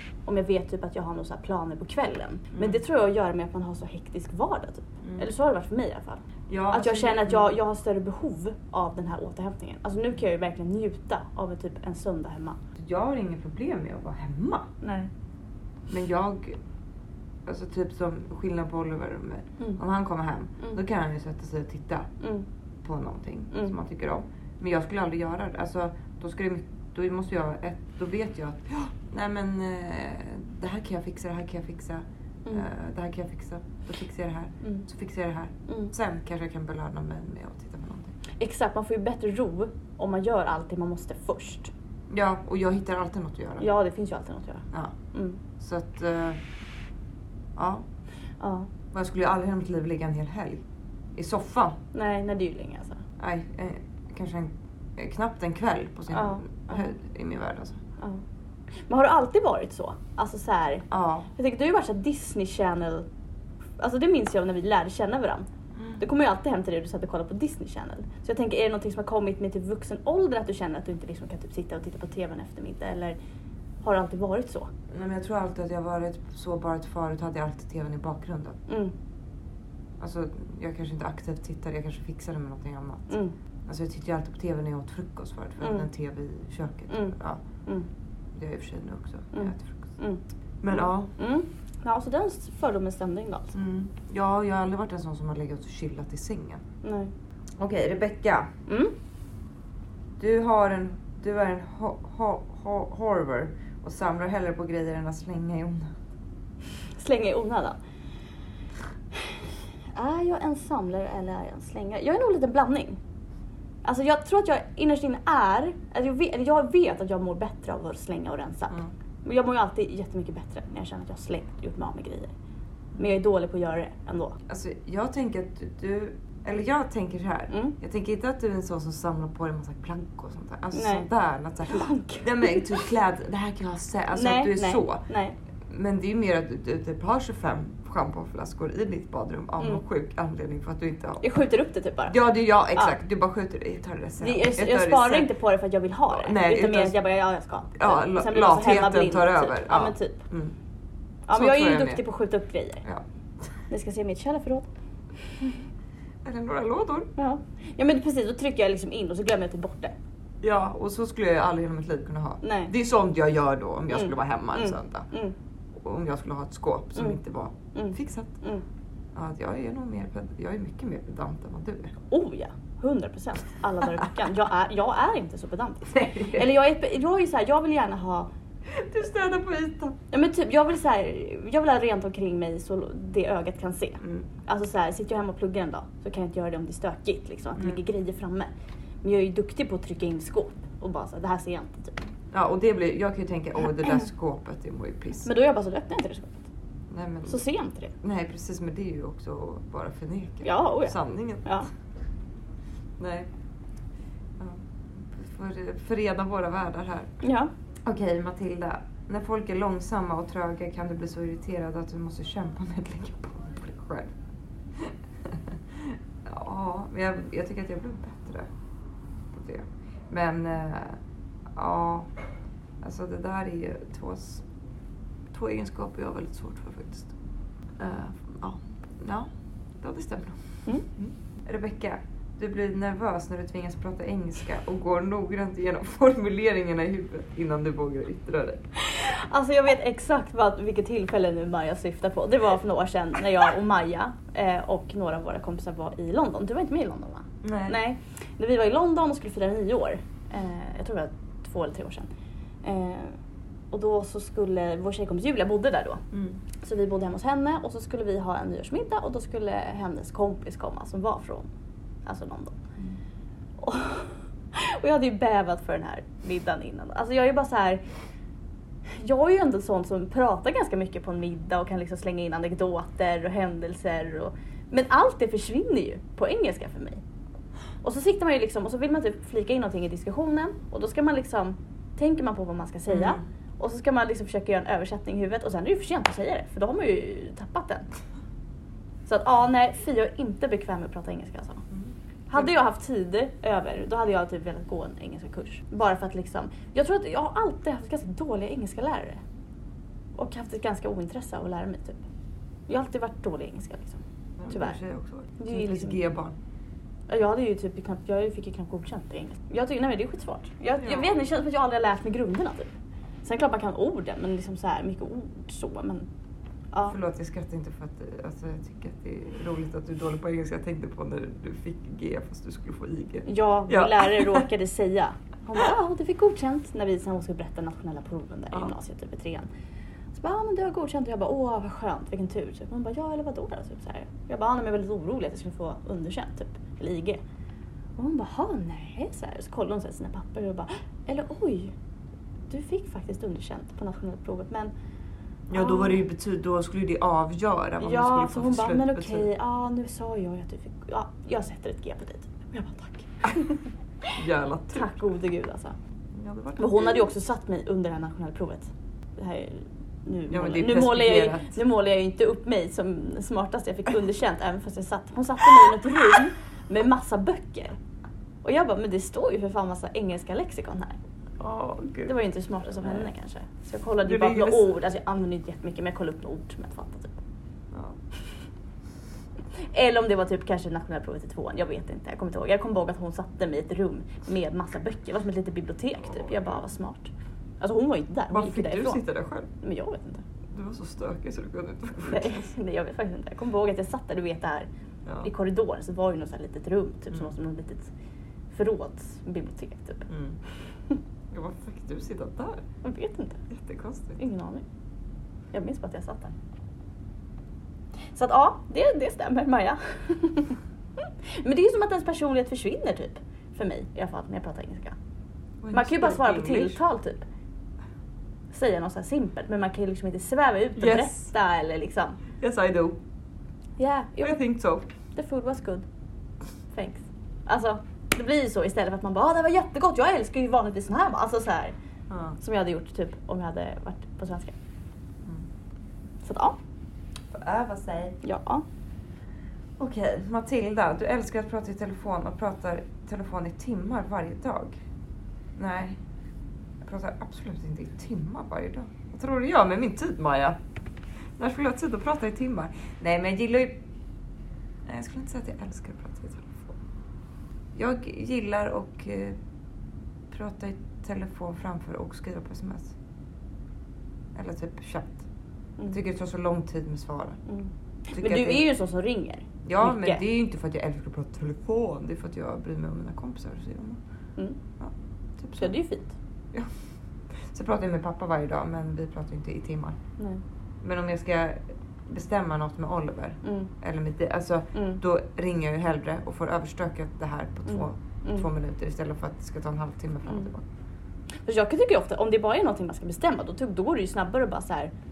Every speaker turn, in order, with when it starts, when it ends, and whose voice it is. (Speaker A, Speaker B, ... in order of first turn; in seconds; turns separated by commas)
Speaker A: 0.2-12.6, Speaker B: 2.5-2.8, Speaker B: 5.0-5.3, Speaker B: 6.5-7.6, Speaker B: 12.8-14.7, Speaker A: 14.8-15.1, Speaker B: 15.9-16.6, Speaker B: 17.4-22.1, Speaker A: 22.2-22.5, Speaker B: 22.8-38.1, Speaker A: 35.7-35.9, Speaker A: 38.4-41.7, Speaker B: 42.1-43.7, Speaker A: 43.6-45.4, Speaker B: 44.7-45.0, Speaker B: 45.6-46.4, Speaker B: 47.5-47.8, Speaker A: 48.4-48.7, Speaker B: 48.9-50.6, Speaker B: 51.1-51.8, Speaker A: 51.9-53.0, Speaker B: 53.2-57.8, Speaker A: 56.1-56.9, Speaker A: 58.9-63.1, Speaker B: 60.9-61.3, Speaker A: 63.8-73.2, Speaker A: 73.8-74.7, Speaker B: 74.9-78.6, Speaker A: 78.7-78.9, Speaker B: 80.0-87.4, Speaker A: 83.1-83.3, Speaker A: 85.6-85.9, Speaker A: 86.9-87.9, Speaker B: 88.3-89.9, Speaker A: 89.3-90.2, Speaker B: 90.6-91.1, Speaker A: 91.1-93.5, Speaker B: 93.5-96.6, Speaker A: 96.8-97.1, Speaker B: 97.6-98.5, Speaker A: 98.7-98.9, Speaker B: 100.2-105.9, Speaker A: 107.0-107.8, Speaker A: 109.1-113.0, Speaker A: 113.8-122.3, Speaker A: 123.0-124.4, Speaker B: 124.5-135.1, Speaker A: 127.5-127.8, Speaker A: 130.7-131.1, Speaker A: 131.6-132.8, Speaker A: 134.1-135.3, Speaker B: 135.6-141.2, Speaker A: 141.2-142.2, Speaker B: 142.1-145.3, Speaker A: 144.2-150.2, Speaker B: 146.1-147.0, Speaker B: 147.8-150.6, Speaker A: 151.3-152.8, Speaker B: 151.3-152.0, Speaker A: 153.7-154.7, Speaker B: 156.2-157.1, Speaker A: 157.2-159.9, Speaker B: 160.4-165.1, Speaker A: 162.4-162.7, Speaker A: 163.9-165.3, Speaker B: 165.7-168.3, Speaker A: 167.7-168.6, Speaker B: 169.1-171.9, Speaker A: 172.1-178.3, Speaker B: 175.9-176.5, Speaker B: 178.7-180.0, Speaker A: 180.1-188.5, Speaker B: 184.0-184.3, Speaker A: 189.0-192.1, Speaker B: 192.3-195.3, Speaker A: 195.2-196.5, Speaker B: 196.9-197.4, Speaker A: 197.2-197.9, Speaker B: 198.0-201.6, Speaker A: 200.4-201.7, Speaker B: 203.0-203.3, Speaker B: 204.4-207.2, Speaker A: 207.2-207.5, Speaker B: 207.8-214.1, Speaker B: 214.8-218.5, Speaker B: 219.3-221.0, Speaker B: 221.5-222.1, Speaker B: 222.8-224.4, Speaker B: 225.3-227.1, Speaker B: 227.8-238.6, Speaker A: 238.8-252.1, Speaker B: 247.4-247.8, Speaker A: 252.6-253.2, Speaker A: 253.7-256.0, Speaker B: 256.1-256.4, Speaker A: 256.6-261.5, Speaker A: 262.1-262.6, Speaker A: 263.6-267.8, Speaker A: 268.9-277.0, Speaker A: 277.8-287.9, Speaker B: 282.9-283.2, Speaker A: 289.1-291.6, Speaker B: 291.7-292.5, Speaker A: 292.3-299.2, Speaker A: 300.1-302.0, Speaker A: 302.7-304.8, Speaker B: 304.4-306.4, Speaker A: 305.4-306.0, Speaker A: 307.1-312.7, Speaker B: 310.8-311.1, Speaker A: 313.2-316.1, Speaker B: 316.8-324.4, Speaker A: 323.2-329.5, Speaker A: 330.1-337.2, Speaker A: 338.0-341.7, Speaker A: 342.5-344.7, Speaker B: 345.5-349.3, Speaker A: 345.5-346.0, Speaker A: 347.8-354.2, Speaker B: 354.1-354.9, Speaker A: 354.7-355.8, Speaker B: 356.1-357.1, Speaker A: 356.6-367.8, Speaker B: 360.3-361.5, Speaker A: 368.4-371.0, Speaker B: 371.4-372.1, Speaker A: 372.0-377.2, Speaker B: 372.8-373.1, Speaker B: 374.0-374.8, Speaker B: 377.7-378.0, Speaker A: 379.6-389.0, Speaker B: 386.0-386.6, Speaker B: 388.3-389.5, Speaker A: 389.6-390.2, Speaker B: 390.5-392.5, Speaker A: 392.0-394.7, Speaker A: 395.2-397.9, Speaker A: 398.5-400.1, Speaker B: 400.1-400.4, Speaker B: 401.3-402.6, Speaker A: 402.8-403.4, Speaker B: 403.5-404.2, Speaker A: 404.2-404.6, Speaker A: 405.5-406.3, Speaker A: 408.1-414.9, Speaker B: 415.6-416.8, Speaker A: 415.7-417.2, Speaker A: 418.5-422.2, Speaker B: 420.8-421.3, Speaker B: 422.4-423.0, Speaker A: 423.8-424.4, Speaker B: 424.2-424.9, Speaker A: 425.1-425.9, Speaker A: 426.7-431.7, Speaker B: 432.1-432.4, Speaker A: 432.4-434.6, Speaker A: 436.2-436.6, Speaker B: 437.3-438.2, Speaker A: 438.2-438.6, Speaker B: 439.8-444.8, Speaker B: 445.6-446.0, Speaker B: 446.8-450.6, Speaker B: 451.4-453.8, Speaker B: 454.9-456.8, Speaker B: 457.7-459.4, Speaker B: 460.3-462.9, Speaker B: 464.3-465.2, Speaker B: 465.9-467.4, Speaker A: 467.5-470.2, Speaker B: 468.1-468.6, Speaker B: 469.6-474.0, Speaker B: 474.8-475.7, Speaker A: 475.6-476.1, Speaker B: 477.5-480.0, Speaker B: 480.8-490.6, Speaker A: 483.4-483.7, Speaker A: 484.7-485.0, Speaker A: 487.7-488.5, Speaker A: 491.4-494.9